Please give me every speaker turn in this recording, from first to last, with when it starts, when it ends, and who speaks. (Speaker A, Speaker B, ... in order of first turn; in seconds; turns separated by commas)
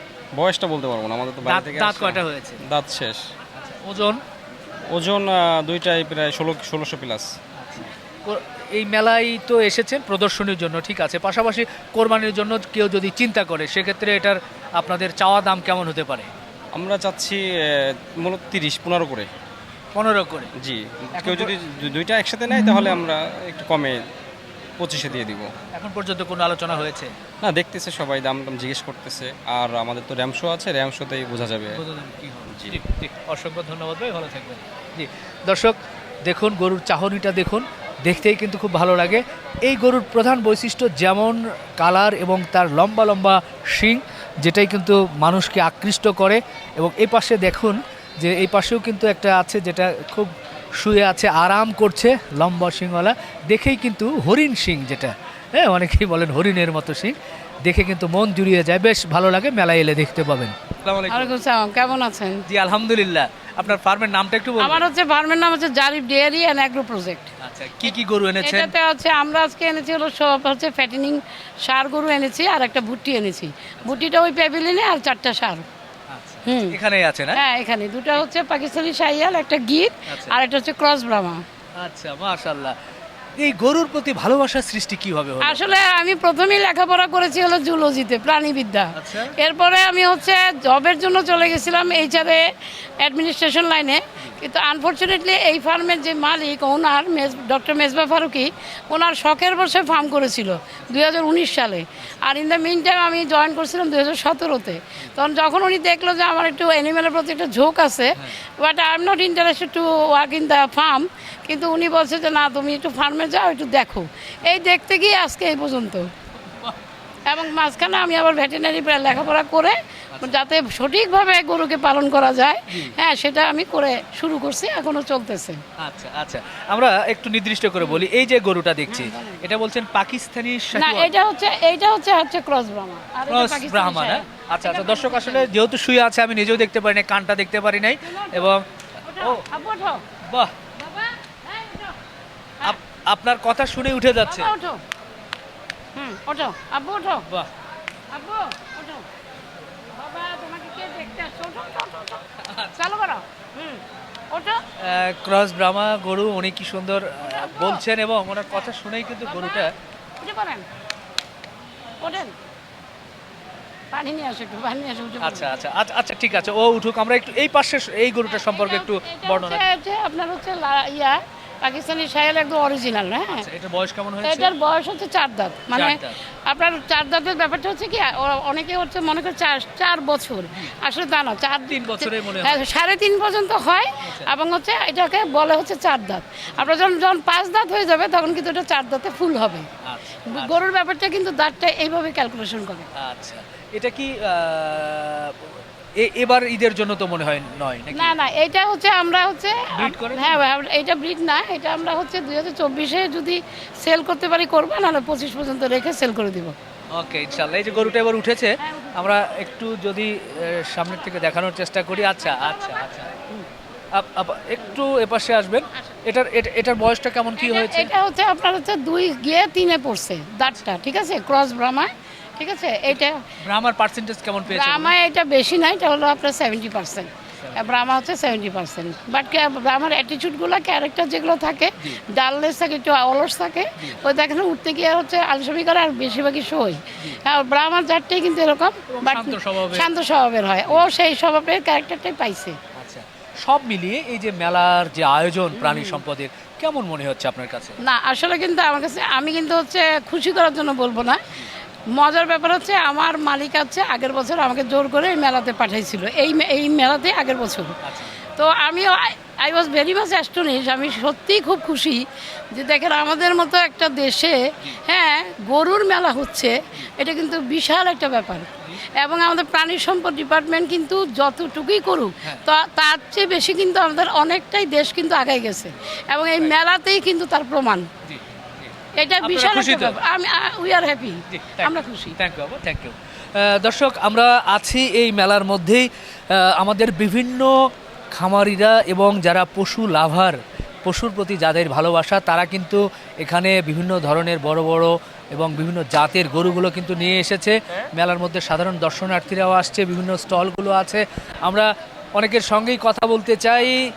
Speaker A: 0.3-3.2, Speaker B: 1.4-2.6, Speaker B: 3.5-4.2, Speaker A: 4.9-7.3, Speaker B: 7.5-16.3, Speaker A: 16.7-17.4, Speaker A: 18.2-19.3, Speaker B: 19.9-20.5, Speaker A: 20.6-24.0, Speaker B: 21.1-21.5, Speaker A: 24.8-25.5, Speaker B: 25.7-27.1, Speaker A: 27.4-31.8, Speaker B: 31.7-61.3, Speaker A: 32.5-32.8, Speaker C: 61.1-62.4, Speaker B: 62.5-64.9, Speaker C: 64.6-67.3, Speaker B: 67.4-68.7, Speaker C: 67.8-75.6, Speaker B: 76.1-77.4, Speaker C: 76.5-76.8, Speaker C: 77.3-81.4, Speaker B: 80.1-80.3, Speaker B: 81.8-82.7, Speaker B: 83.4-85.7, Speaker C: 85.4-92.4, Speaker B: 89.0-89.3, Speaker C: 93.0-116.1, Speaker B: 100.8-101.1, Speaker C: 117.2-125.6, Speaker B: 122.7-122.9, Speaker B: 125.8-131.1, Speaker C: 128.9-129.4, Speaker C: 130.7-135.5, Speaker B: 133.3-138.6, Speaker C: 138.1-138.5, Speaker C: 139.1-140.0, Speaker B: 139.2-139.4, Speaker C: 140.8-141.9, Speaker B: 142.6-144.5, Speaker C: 144.2-144.8, Speaker C: 145.9-147.2, Speaker C: 148.1-149.0, Speaker C: 149.9-152.2, Speaker B: 152.4-152.8, Speaker C: 152.8-154.6, Speaker B: 154.8-159.7, Speaker C: 157.3-157.8, Speaker C: 159.2-160.6, Speaker C: 162.0-162.3, Speaker C: 163.9-165.5, Speaker B: 165.2-169.6, Speaker C: 168.3-173.4, Speaker B: 173.3-174.5, Speaker C: 174.2-189.7, Speaker B: 175.7-176.1, Speaker B: 181.7-182.6, Speaker B: 189.8-190.6, Speaker C: 190.3-192.9, Speaker B: 192.9-198.1, Speaker C: 197.9-206.5, Speaker B: 199.7-200.4, Speaker B: 206.9-213.1, Speaker C: 208.6-209.1, Speaker C: 211.9-213.4, Speaker B: 213.9-217.9, Speaker C: 217.4-223.2, Speaker B: 223.4-224.9, Speaker C: 224.5-242.6, Speaker B: 227.4-227.7, Speaker B: 238.9-239.9, Speaker B: 242.8-247.8, Speaker C: 245.5-246.0, Speaker C: 247.8-251.2, Speaker C: 251.9-257.8, Speaker B: 257.8-258.2, Speaker C: 258.3-277.9, Speaker B: 278.1-278.7, Speaker C: 278.9-282.1, Speaker B: 279.2-280.0, Speaker B: 281.3-287.5, Speaker B: 288.1-303.8